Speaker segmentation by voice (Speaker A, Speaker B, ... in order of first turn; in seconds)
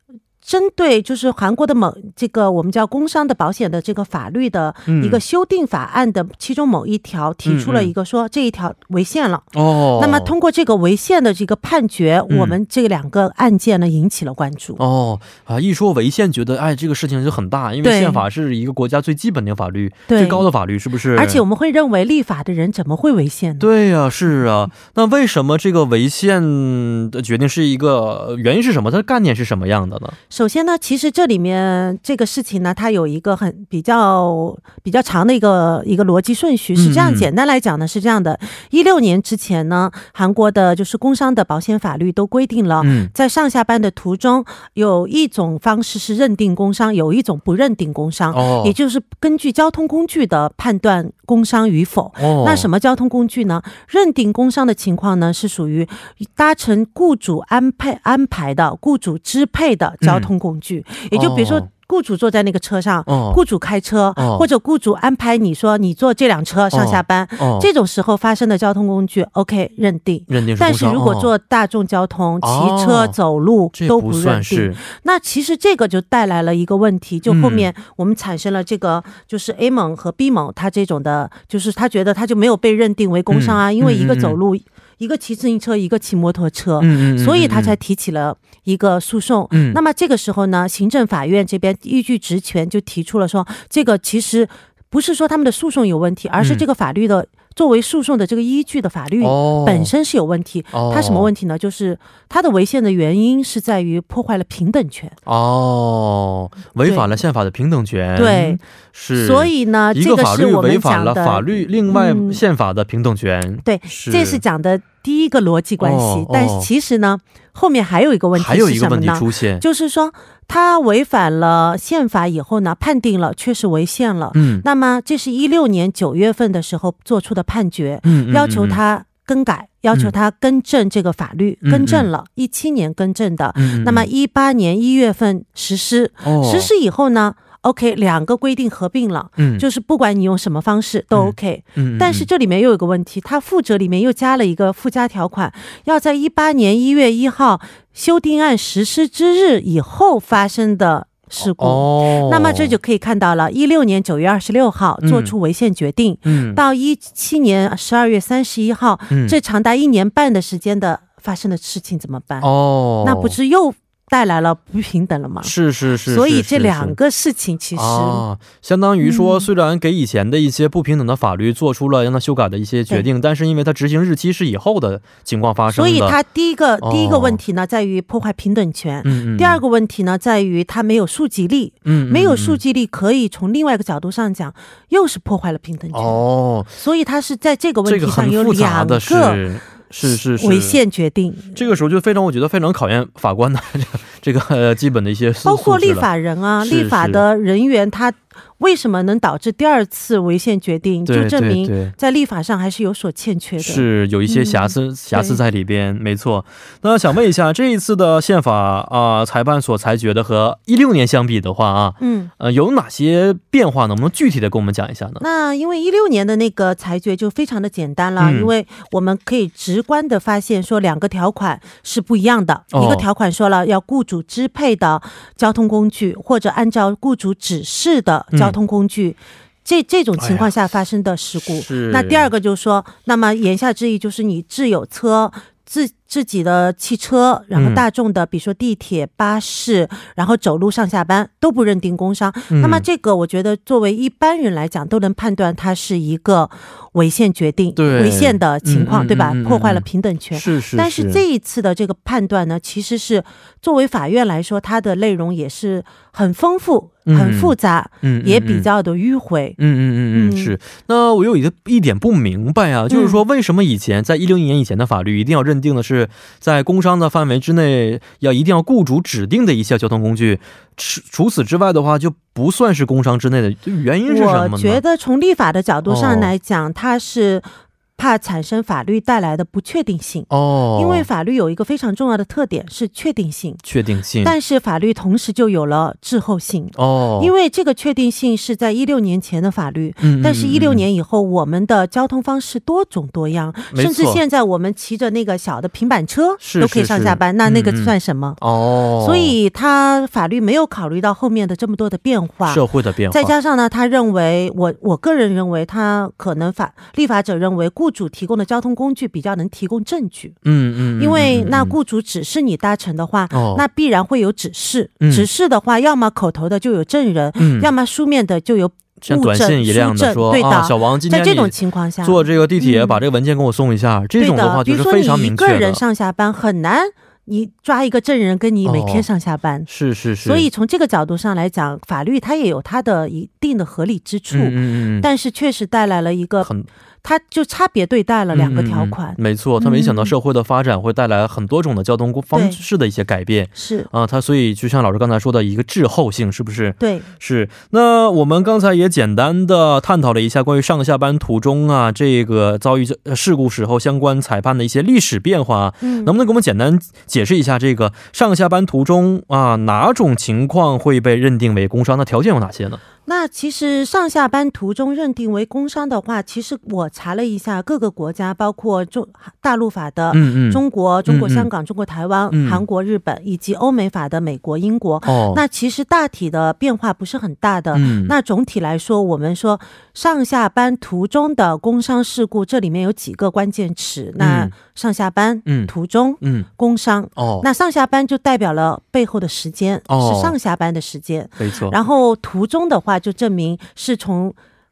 Speaker A: 0.4-14.8, 17.8-18.2, 20.1-20.4, 21.1-23.7, 30.3-105.2, 106.8-107.1, 108.2-108.6, 109.1-112.4, 113.6-162.5, 163.0-165.5, 166.1-168.2, 169.0-169.5, 175.7-186.2, 186.7-189.4, 190.0-191.6, 195.4-205.4, 212.0-212.3, 215.2-259.6, 260.1-260.5, 262.9-263.2, 274.1-283.6, 284.2-298.4, 299.0-310.4, 311.0-323.0, 324.2-329.7, 330.2-336.5, 337.0-340.1, 342.3-342.6, 343.5-343.9, 346.8-347.1, 355.8-356.1, 363.1-394.4
Speaker B: 4.9-5.2, 7.4-7.9, 9.5-10.3, 12.3-12.6, 14.8-21.4, 23.6-30.2, 36.7-37.3, 42.8-43.1, 48.3-48.7, 52.2-52.7, 60.0-60.3, 61.1-61.7, 63.1-63.4, 64.2-64.5, 66.7-67.7, 70.3-71.3, 72.4-73.2, 73.7-74.8, 77.3-77.7, 83.3-84.4, 86.8-87.7, 89.5-89.8, 96.4-96.6, 99.2-99.9, 100.7-101.3, 105.2-114.4, 115.8-116.7, 118.3-119.6, 124.3-124.6, 128.0-128.8, 131.6-132.1, 133.6-134.1, 136.2-136.7, 139.4-139.6, 141.1-142.3, 151.4-152.7, 155.0-155.3, 156.2-156.6, 159.1-159.3, 162.4-163.4, 165.4-167.0, 167.7-176.2, 176.8-177.4, 179.0-179.6, 181.8-182.6, 185.9-186.7, 187.8-190.8, 191.5-196.1, 196.6-197.2, 201.1-201.9, 203.6-215.2, 218.2-218.5, 222.7-223.1, 228.3-228.6, 230.2-230.5, 231.4-232.3, 237.5-237.8, 242.5-242.8, 247.8-251.2, 257.1-258.7, 259.6-274.8, 275.9-276.3, 280.3-281.1, 283.6-284.3, 286.8-287.3, 290.0-290.8, 293.7-294.2, 296.4-299.3, 302.4-303.3, 310.4-311.8, 313.3-313.6, 315.0-315.3, 317.4-317.7, 319.0-325.8, 328.6-329.1, 329.7-330.5, 334.3-335.1, 336.4-336.7, 338.3-362.8, 370.1-371.5, 372.3-372.6, 375.1-375.4, 377.7-378.1, 384.2-384.5, 385.4-386.5, 387.1-387.4, 389.9-390.3, 391.4-391.8